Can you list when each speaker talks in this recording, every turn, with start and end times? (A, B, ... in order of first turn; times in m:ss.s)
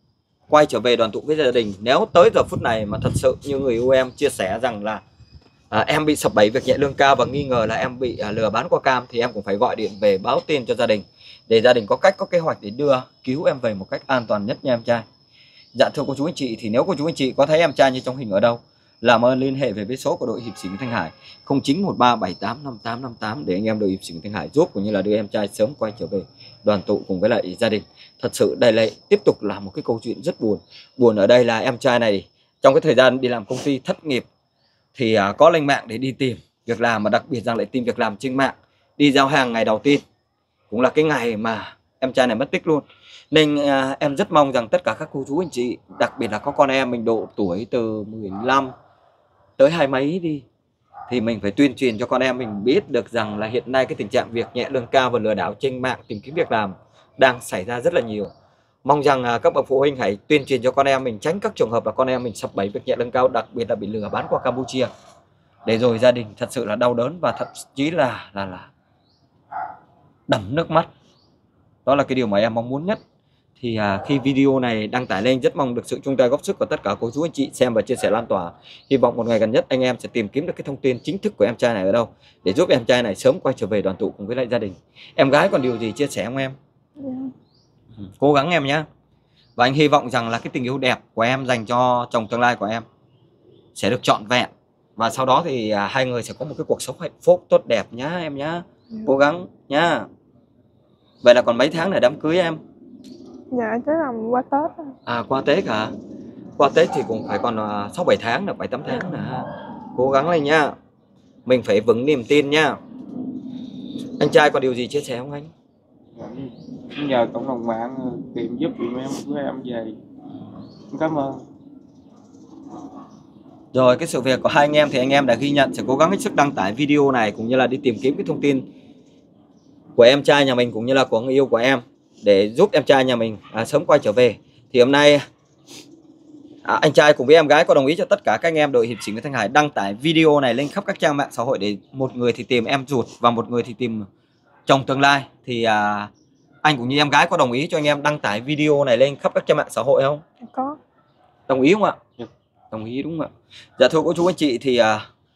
0:00.5-0:05.0 A
0:05.7-0:15.0 A
0:15.7-0:34.3 A
0:34.9-0:40.0 A
0:40.7-0:48.7 A
0:49.6-0:50.4 A
0:51.1-0:58.3 A
0:58.8-1:04.9 A
1:05.6-1:08.7 A
1:10.3-1:10.9 A
1:11.8-1:13.0 A
1:13.6-1:26.6 A
1:27.0-1:27.3 B
1:28.2-1:28.8 A
1:29.6-1:32.8 A
1:33.7-1:40.1 A
1:41.2-1:42.6 A
1:43.5-1:44.9 B
1:45.0-1:45.9 A
1:46.6-1:50.7 A
1:51.4-1:52.8 A
1:54.2-1:55.5 A
1:56.2-2:00.0 C
2:00.9-2:01.4 C
2:03.7-2:08.7 A
2:10.0-2:15.2 A
2:16.6-2:24.1 A
2:24.7-2:26.1 A
2:26.6-2:30.2 A
2:30.4-2:30.8 B
2:31.5-2:32.0 A
2:32.7-2:35.0 A